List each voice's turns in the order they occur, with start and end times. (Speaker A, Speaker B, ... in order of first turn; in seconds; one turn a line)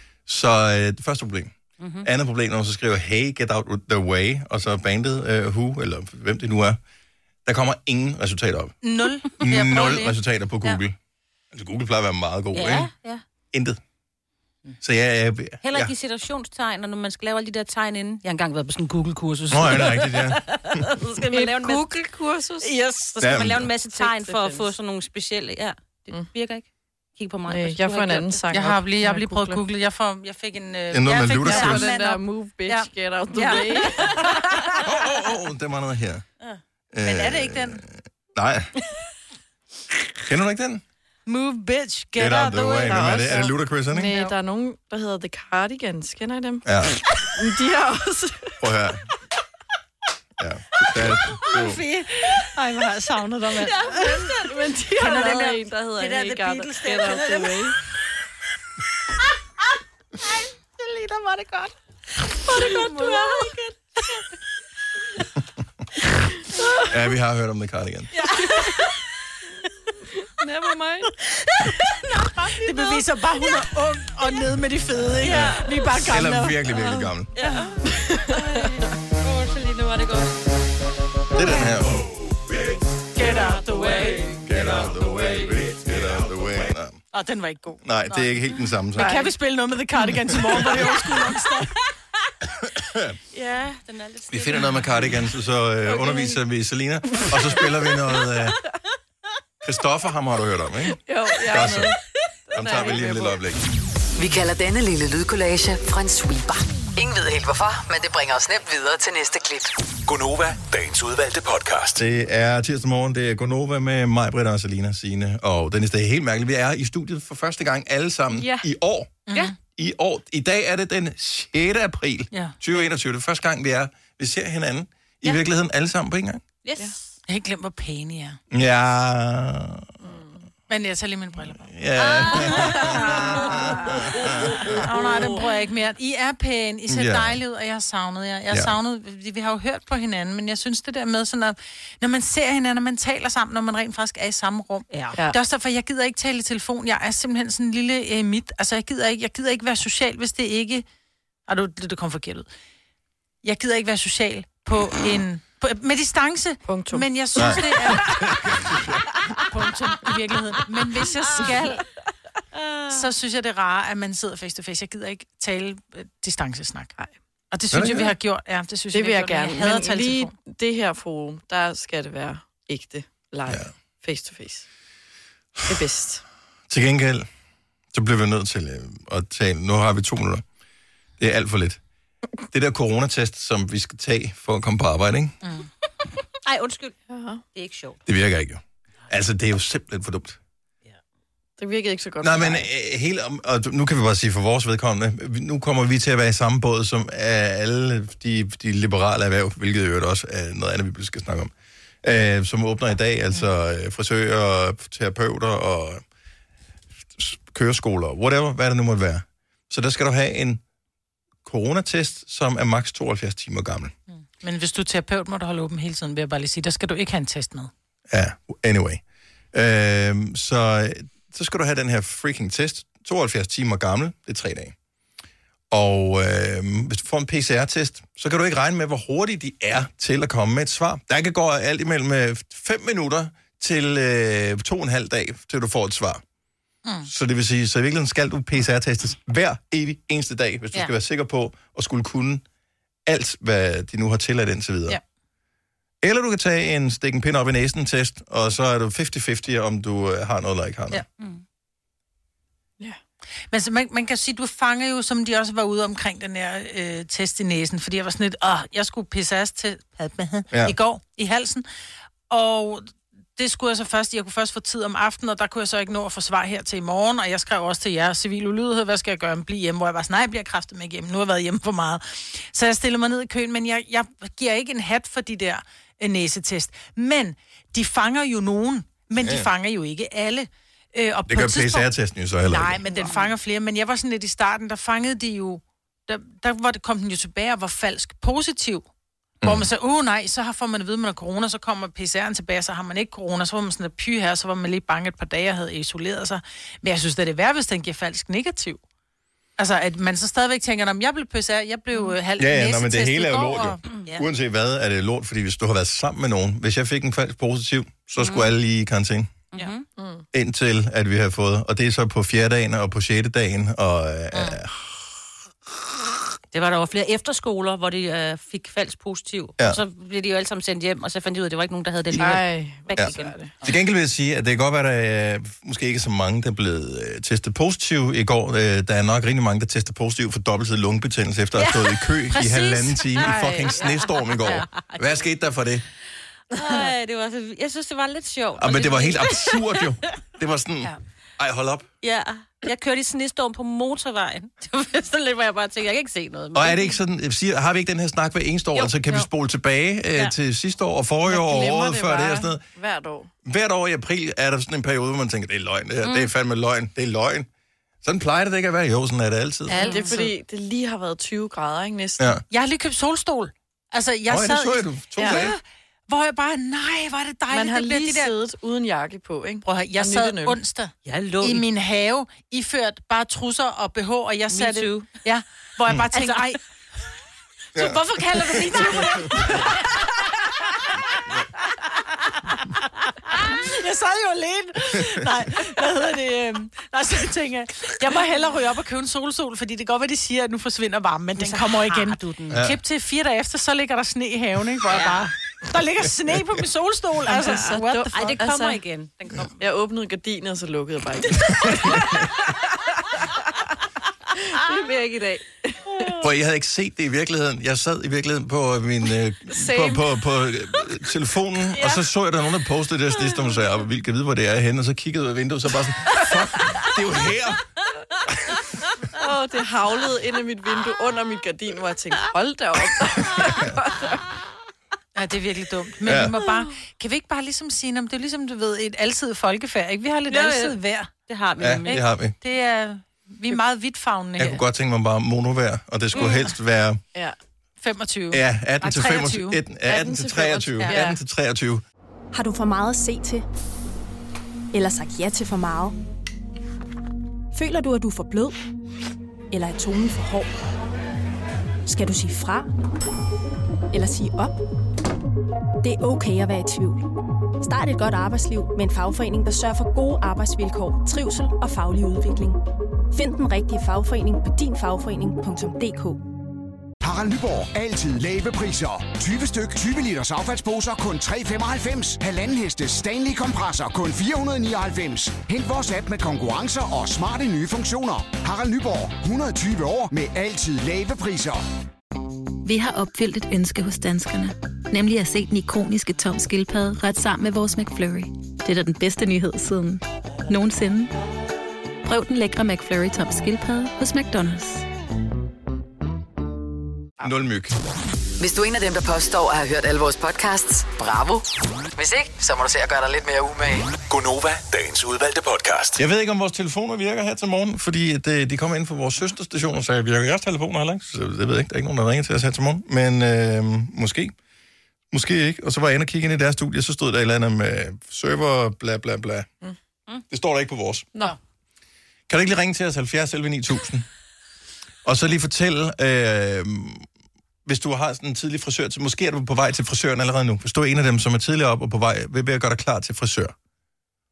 Speaker A: 0.2-6.8
Speaker B: 1.8-2.0
Speaker A: 7.5-8.7
Speaker C: 8.8-10.1
Speaker A: 9.3-10.9
Speaker A: 11.5-12.9
Speaker B: 12.5-13.2
Speaker A: 13.5-13.8
Speaker A: 14.8-15.9
Speaker B: 15.6-26.6
Speaker A: 19.5-20.4
Speaker D: 21.2-22.8
Speaker A: 23.2-23.7
Speaker D: 23.9-24.7
Speaker B: 27.2-28.4
Speaker D: 27.5-29.6
Speaker C: 28.5-34.8
Speaker A: 30.9-31.9
Speaker D: 31.4-34.3
Speaker B: 33.4-34.3
Speaker A: 34.8-36.2
Speaker A: 36.9-38.7
Speaker C: 37.0-37.8
Speaker A: 40.3-40.8
Speaker C: 41.2-44.3
Speaker A: 42.2-44.1
Speaker D: 42.8-46.6
Speaker A: 46.6-47.0
Speaker D: 47.4-48.5
Speaker A: 48.6-49.0
Speaker A: 50.4-51.8
Speaker C: 51.4-54.2
Speaker B: 53.6-57.7
Speaker D: 53.9-57.8
Speaker C: 55.0-55.5
Speaker B: 60.8-61.7
Speaker B: 62.5-63.7
Speaker D: 62.5-63.5
Speaker C: 62.6-63.1
Speaker A: 66.9-68.1
Speaker D: 68.2-68.9
Speaker D: 70.4-71.1
Speaker C: 72.4-76.6
Speaker A: 75.2-75.5
Speaker B: 75.2-75.7
Speaker A: 76.1-77.3
Speaker D: 76.8-77.1
Speaker B: 77.4-80.3
Speaker D: 77.8-78.7
Speaker A: 81.4-82.0
Speaker C: 83.2-84.3
Speaker B: 83.7-84.2
Speaker A: 84.4-87.0
Speaker C: 87.1-87.9
Speaker A: 87.8-89.2
Speaker C: 88.9-91.7
Speaker D: 89.0-89.3
Speaker A: 90.4-91.0
Speaker A: 92.6-93.2
Speaker B: 93.3-95.2
Speaker A: 94.3-98.6
Speaker A: 99.6-101.9
Speaker D: 101.0-102.0
Speaker D: 102.5-103.4
Speaker A: 102.5-103.6
Speaker E: 104.2-109.7
Speaker F: 110.1-112.0
Speaker A: 111.9-119.2
Speaker D: 118.4-118.6
Speaker C: 119.3-119.5
Speaker A: 119.8-126.4
Speaker C: 122.3-122.6
Speaker B: 126.6-127.1
Speaker C: 127.3-128.4
Speaker A: 128.5-129.9
Speaker D: 130.0-130.5
Speaker C: 130.7-131.6
Speaker A: 131.6-134.7
Speaker B: 132.0-134.3
Speaker C: 134.8-150.9
Speaker A: 136.9-137.4
Speaker A: 138.5-138.8
Speaker C: 151.5-152.5
Speaker C: 153.4-158.3
Speaker D: 156.7-157.6
Speaker A: 157.4-159.0
Speaker C: 159.4-161.8
Speaker B: 162.6-163.0
Speaker C: 162.9-170.3
Speaker A: 167.7-168.1
Speaker D: 168.9-174.7
Speaker D: 175.7-176.2
Speaker A: 176.7-177.3
Speaker A: 177.9-180.4
Speaker A: 181.2-181.8
Speaker A: 182.5-185.4
Speaker B: 186.4-186.9
Speaker D: 187.1-187.4
Speaker B: 187.5-188.0
Speaker A: 188.1-190.4
Speaker D: 191.6-192.7
Speaker A: 192.2-201.5
Speaker A: 202.0-206.0
Speaker A: 207.2-210.6
Speaker A: 211.4-213.9
Speaker C: 214.4-217.7
Speaker A: 218.1-219.0
Speaker A: 219.5-224.7
Speaker A: 225.7-236.2
Speaker A: 237.1-242.4
Speaker A: 243.1-245.0
Speaker A: 246.0-251.0
Speaker C: 253.5-261.6
Speaker C: 262.3-281.9
Speaker A: 279.2-279.5
Speaker A: 281.3-282.8
Speaker C: 282.5-288.9
Speaker A: 289.4-289.7
Speaker C: 289.4-298.8
Speaker C: 299.6-303.9
Speaker A: 302.4-309.4
Speaker B: 303.9-304.2
Speaker B: 308.2-308.5
Speaker B: 309.5-309.9
Speaker D: 310.0-310.2
Speaker A: 310.3-316.2
Speaker B: 316.5-323.4
Speaker D: 322.1-323.5
Speaker A: 323.0-335.8
Speaker C: 331.6-333.7
Speaker D: 333.3-333.9
Speaker B: 334.4-335.1
Speaker B: 336.5-339.9
Speaker A: 338.6-341.9
Speaker B: 342.0-347.0
Speaker A: 346.5-352.6
Speaker B: 348.7-349.3
Speaker D: 351.3-353.3
Speaker A: 353.4-357.5
Speaker B: 356.0-356.3
Speaker A: 358.0-359.9
Speaker C: 359.7-360.3
Speaker B: 359.8-360.2
Speaker D: 359.8-362.4
Speaker C: 362.5-368.4
Speaker A: 364.3-365.5
Speaker D: 365.2-365.5
Speaker D: 367.5-370.6
Speaker C: 369.6-376.6
Speaker B: 371.0-371.6
Speaker B: 374.5-375.1
Speaker B: 376.1-376.5
Speaker C: 377.8-380.1
Speaker C: 380.8-381.2
Speaker C: 383.2-398.8
Speaker B: 391.4-392.6
Speaker A: 392.5-392.8
Speaker A: 396.3-396.6
Speaker D: 397.3-398.8
Speaker B: 398.1-399.5
Speaker D: 399.4-402.2
Speaker A: 401.8-402.3
Speaker D: 404.5-406.1
Speaker A: 406.2-417.6
Speaker D: 409.5-410.0
Speaker D: 419.1-424.2
Speaker C: 425.1-431.1
Speaker A: 426.1-426.3
Speaker B: 430.3-430.8
Speaker B: 431.3-432.0
Speaker A: 431.6-432.4
Speaker C: 431.9-434.6
Speaker A: 434.4-437.0
Speaker C: 436.2-436.4
Speaker C: 437.8-439.6
Speaker A: 438.3-441.8
Speaker D: 439.9-441.2
Speaker G: 442.3-443.4
Speaker G: 444.7-445.9
Speaker G: 447.5-448.6
Speaker G: 449.5-450.6
Speaker G: 451.9-452.7
Speaker G: 453.9-454.6
Speaker G: 455.8-457.0
Speaker G: 457.6-462.6
Speaker G: 463.1-466.2
Speaker H: 467.0-481.6
Speaker I: 482.6-491.1
Speaker I: 492.0-494.9
Speaker A: 497.2-497.8
Speaker E: 498.4-501.4
Speaker E: 501.9-503.9
Speaker F: 504.1-506.0
Speaker A: 505.9-514.3
Speaker A: 515.1-519.5
Speaker A: 520.3-521.1
Speaker A: 522.3-524.1
Speaker A: 525.0-527.1
Speaker A: 527.6-533.5